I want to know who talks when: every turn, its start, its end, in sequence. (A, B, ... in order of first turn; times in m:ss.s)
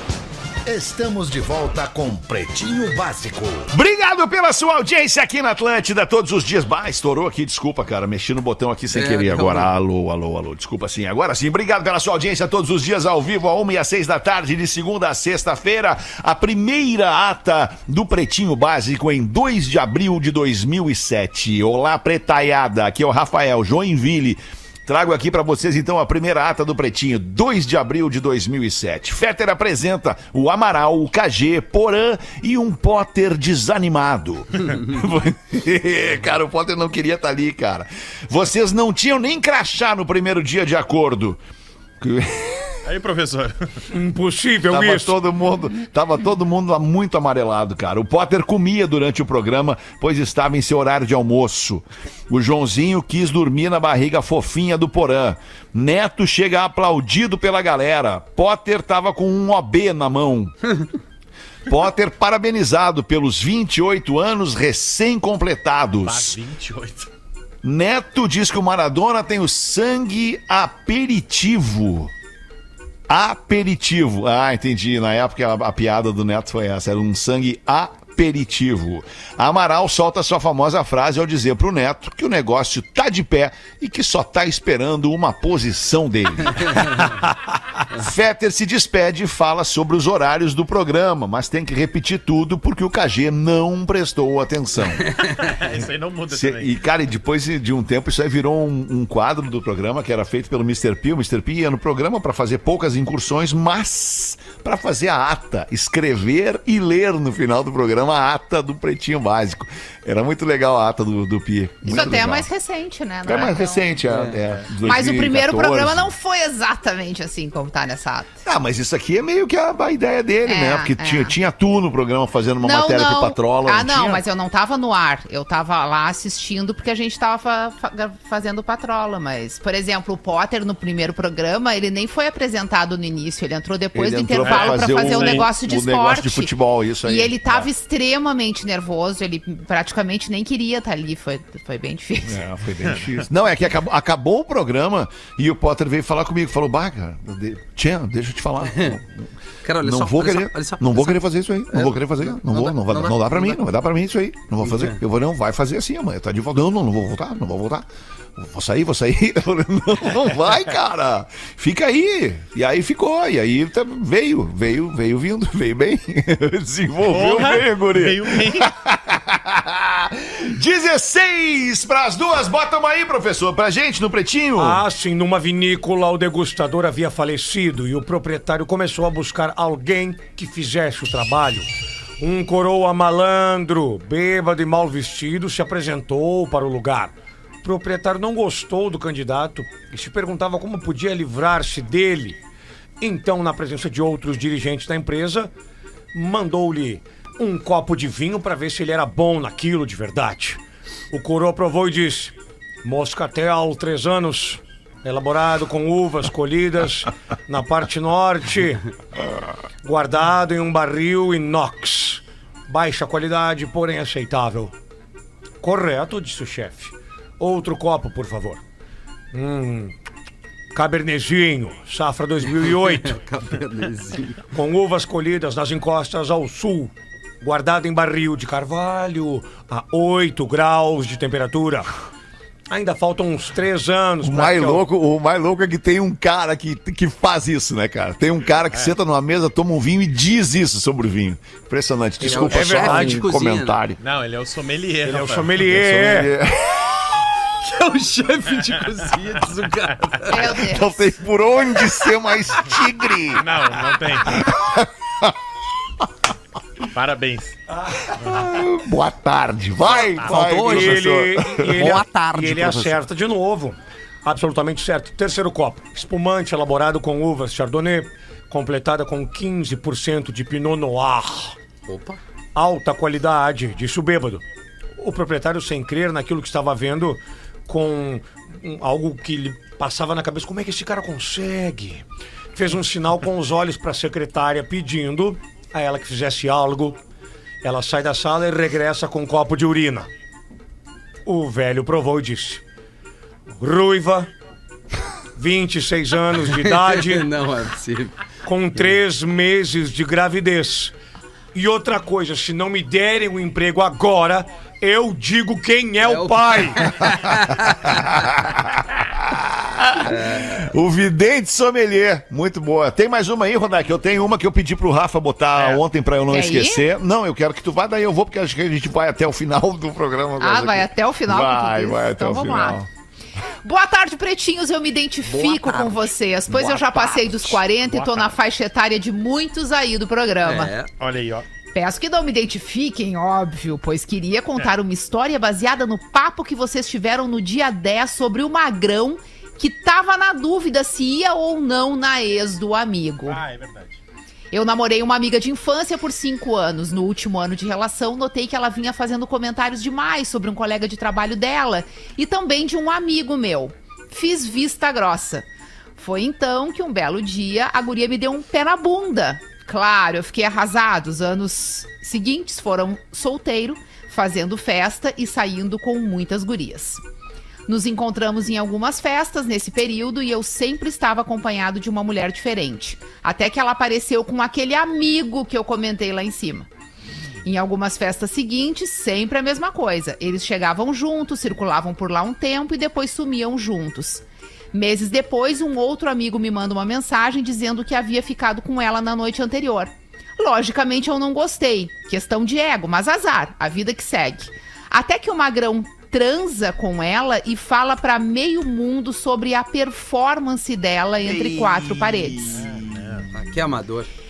0:00.6-0:03.7 A
0:03.7-0:41.4 B
0:08.9-0:09.7 C
0:42.0-0:42.8 B
0:42.8-0:43.8 D
0:43.9-0:45.2 E
0:44.7-1:00.5 B
1:01.7-1:06.4 B
1:06.0-1:07.1 D
1:07.6-1:12.1 B
1:13.1-1:27.1 B
1:27.9-1:35.1 B
1:35.4-1:36.7 D
1:36.3-1:52.5 B
1:51.8-1:53.9 F
1:53.2-1:56.1 B
1:54.1-1:54.4 C
1:54.8-1:58.4 F
1:58.4-2:04.2 B
2:00.5-2:01.4 F
2:02.6-2:16.5 F
2:13.9-2:17.7 B
2:14.4-2:15.5 D
2:17.0-2:22.4 F
2:22.3-2:29.3 B
2:22.8-2:23.1 D
2:28.7-2:29.0 C
2:29.6-2:33.6 C
2:29.8-2:54.8 B
2:34.6-2:35.0 C
2:47.1-2:48.7 D
2:54.6-3:01.7 E
3:02.2-3:12.4 E
3:13.0-3:15.5 E
3:16.1-3:20.6 E
3:21.1-3:28.8 E
3:29.8-3:34.7 E
3:35.6-3:38.6 E
3:39.3-3:39.9 E
3:40.7-3:43.2 E
3:43.0-3:44.4 C
3:44.5-3:51.9 E
3:52.7-3:54.8 E
3:54.2-4:04.0 B
4:02.2-4:03.3 E
4:02.2-4:03.8 C
4:04.0-4:05.6 D
4:05.1-4:06.3 E
4:05.6-4:07.3 B
4:07.6-4:10.5 C
4:10.3-4:11.0 F
4:10.4-4:13.4 B
4:13.4-4:14.4 D
4:14.2-4:15.4 B
4:16.9-4:17.6 D
4:18.2-4:22.9 B
4:18.2-4:18.5 D
4:19.9-4:20.4 D
4:20.2-4:21.1 C
4:20.5-4:31.5 E
4:21.6-4:22.9 C
4:31.9-4:32.2 C
4:32.5-4:34.4 E
4:35.0-4:47.0 E
4:47.6-4:50.1 E
4:51.2-4:52.6 E
4:53.6-4:54.3 E
4:55.4-4:57.3 E
4:56.5-4:58.2 C
4:58.4-5:00.9 E
5:01.5-5:07.1 E
5:06.0-5:07.8 C
5:07.8-5:22.9 B
5:10.1-5:10.6 C
5:16.3-5:16.8 F
5:20.4-5:22.8 F
5:23.6-5:30.7 F
5:25.2-5:27.6 C
5:27.9-5:28.2 D
5:30.4-5:30.9 C
5:31.0-5:31.5 D
5:31.8-5:43.4 F
5:43.3-5:44.0 D
5:44.5-5:55.5 F
5:56.0-6:07.0 F
6:07.7-6:16.7 F
6:17.4-6:42.6 F
6:41.2-6:43.6 B
6:42.6-6:43.2 D
6:43.3-6:44.1 C